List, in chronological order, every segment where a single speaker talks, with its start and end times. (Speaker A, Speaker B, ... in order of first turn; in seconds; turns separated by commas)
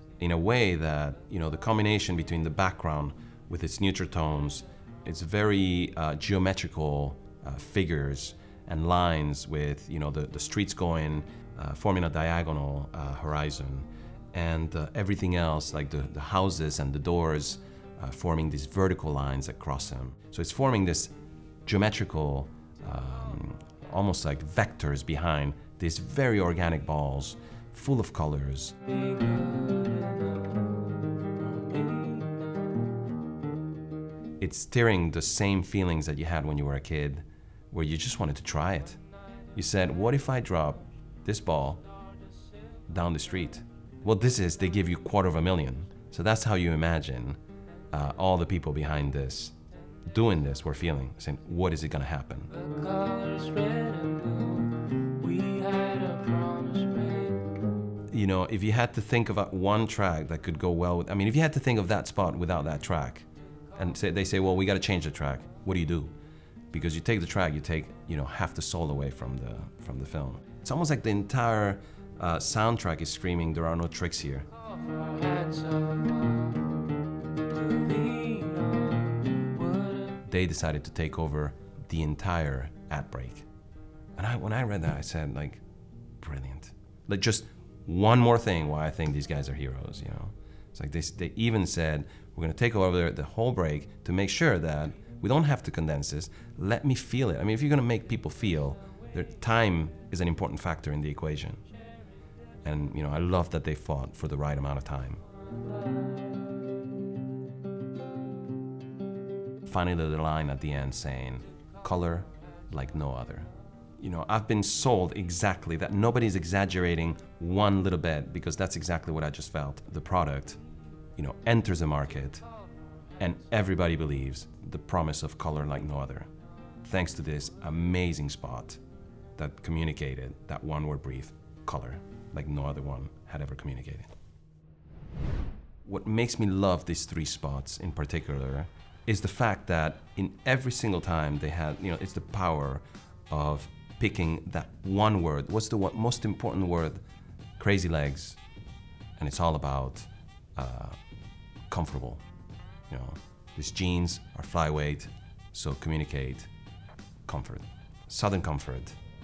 Speaker A: 0.2-21.1, Speaker A: 21.7-28.8, Speaker B: 28.9-32.7, Speaker A: 34.4-39.0, Speaker A: 39.5-41.9, Speaker A: 42.9-47.4, Speaker A: 47.9-49.5, Speaker A: 50.1-52.5, Speaker B: 52.5-57.5, Speaker A: 58.1-66.1, Speaker A: 66.7-74.5, Speaker B: 74.7-76.8, Speaker B: 77.4-80.2, Speaker A: 80.2-83.5, Speaker A: 84.2-85.6, Speaker A: 86.2-101.6, Speaker A: 102.6-105.2, Speaker B: 105.8-106.5, Speaker A: 109.7-120.6, Speaker A: 121.2-122.5, Speaker A: 123.2-126.3, Speaker A: 126.8-128.8, Speaker A: 129.4-134.1, Speaker A: 135.8-147.0, Speaker A: 147.6-148.4, Speaker A: 149.2-151.0, Speaker A: 151.7-152.2, Speaker A: 152.9-156.5, Speaker A: 157.3-159.0